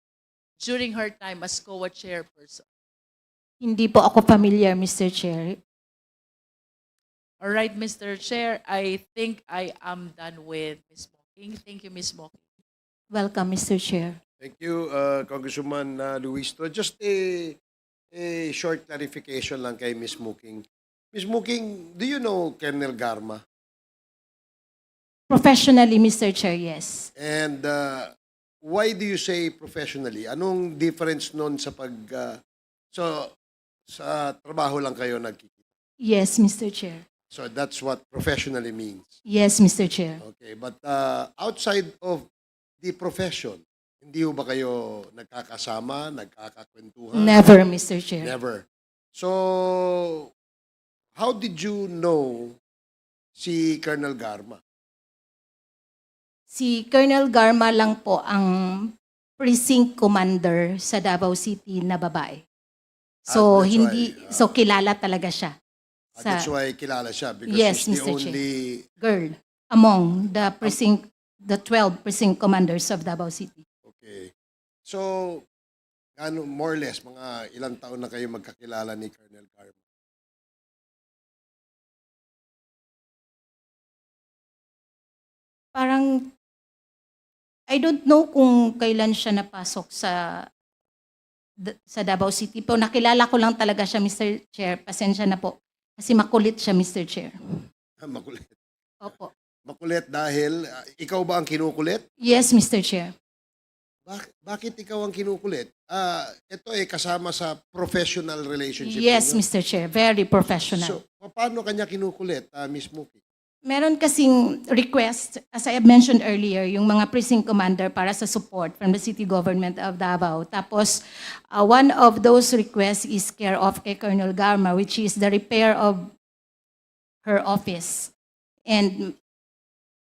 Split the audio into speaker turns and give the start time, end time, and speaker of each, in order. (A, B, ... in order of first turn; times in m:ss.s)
0:00.6-0:02.6 A
0:03.6-0:05.6 B
0:07.4-0:12.4 A
0:13.1-0:14.2 B
0:14.4-0:17.6 C
0:18.1-0:23.4 C
0:25.3-0:27.1 B
0:27.2-0:28.1 C
0:28.6-0:32.4 C
0:32.9-0:33.3 C
0:33.9-0:35.5 C
0:36.0-0:37.0 B
0:37.3-0:39.1 C
0:39.3-0:40.2 B
0:40.2-0:42.3 C
0:42.8-0:47.5 C
0:47.1-0:48.3 B
0:48.2-0:50.3 C
0:51.2-0:52.6 C
0:53.4-0:54.6 C
0:56.5-1:02.4 B
1:03.3-1:04.4 C
1:03.3-1:05.5 B
1:06.2-1:06.5 B
1:06.2-1:08.8 C
1:07.5-1:08.4 B
1:09.0-1:13.6 B
1:13.8-1:14.3 C
1:14.9-1:15.5 C
1:16.2-1:19.8 C
1:25.7-1:26.3 B
1:27.7-1:30.5 B
1:31.6-1:37.3 B
1:38.0-1:38.5 C
1:39.0-1:39.3 B
1:39.7-1:42.0 C
1:42.2-1:43.1 B
1:44.1-1:49.4 C
1:48.8-1:51.0 B
1:50.7-1:53.2 C
1:53.6-2:06.1 B
2:07.2-2:08.1 B
2:08.7-2:09.1 B